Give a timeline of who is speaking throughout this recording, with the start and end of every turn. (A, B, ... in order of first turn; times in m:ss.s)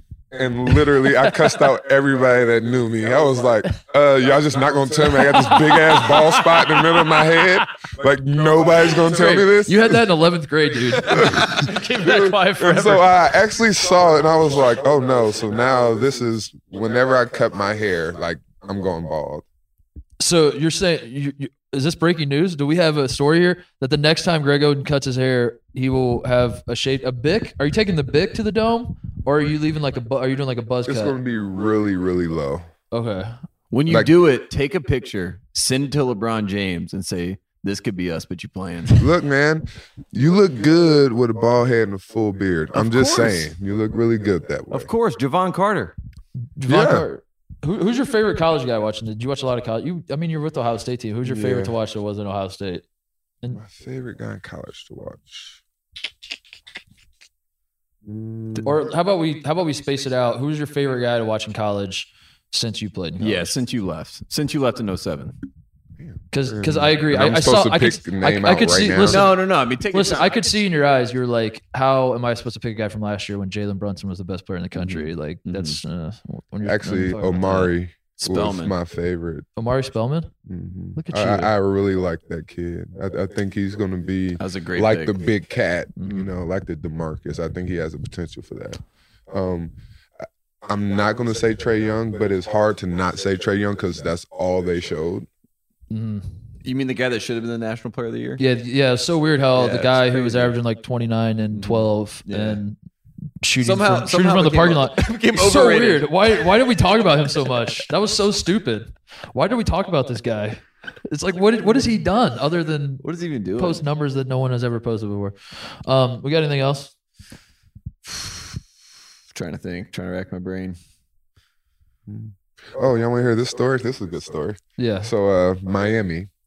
0:00.3-0:10.0 A
0:05.2-0:06.1 B
0:09.0-0:13.2 B
0:11.0-0:19.4 A
0:20.2-0:31.2 B
0:30.8-0:32.7 A
0:32.9-0:33.3 B
0:33.7-0:39.0 C
0:39.0-0:44.9 A
0:42.7-0:43.5 C
0:44.7-0:45.9 C
0:46.6-0:52.8 B
0:46.7-0:47.0 A
0:51.2-0:51.7 A
0:53.5-0:55.6 A
0:58.0-0:58.8 A
0:58.6-1:03.5 B
1:03.2-1:05.3 C
1:06.0-1:09.3 A
1:06.3-1:09.3 B
1:09.0-1:10.4 C
1:09.9-1:17.7 B
1:14.7-1:15.8 C
1:16.6-1:19.5 A
1:18.2-1:18.7 C
1:19.6-1:20.3 B
1:20.4-1:35.3 A
1:21.0-1:21.5 B
1:24.4-1:25.3 C
1:26.0-1:26.2 B
1:35.9-1:36.4 B
1:36.6-1:38.4 C
1:38.4-1:42.8 B
1:39.5-1:40.5 C
1:41.5-1:42.6 C
1:43.4-1:53.0 B
1:43.6-1:46.3 C
1:53.0-1:53.8 C
1:53.6-1:56.9 B
1:59.3-2:00.8 C
2:02.1-2:06.3 A
2:04.8-2:05.1 B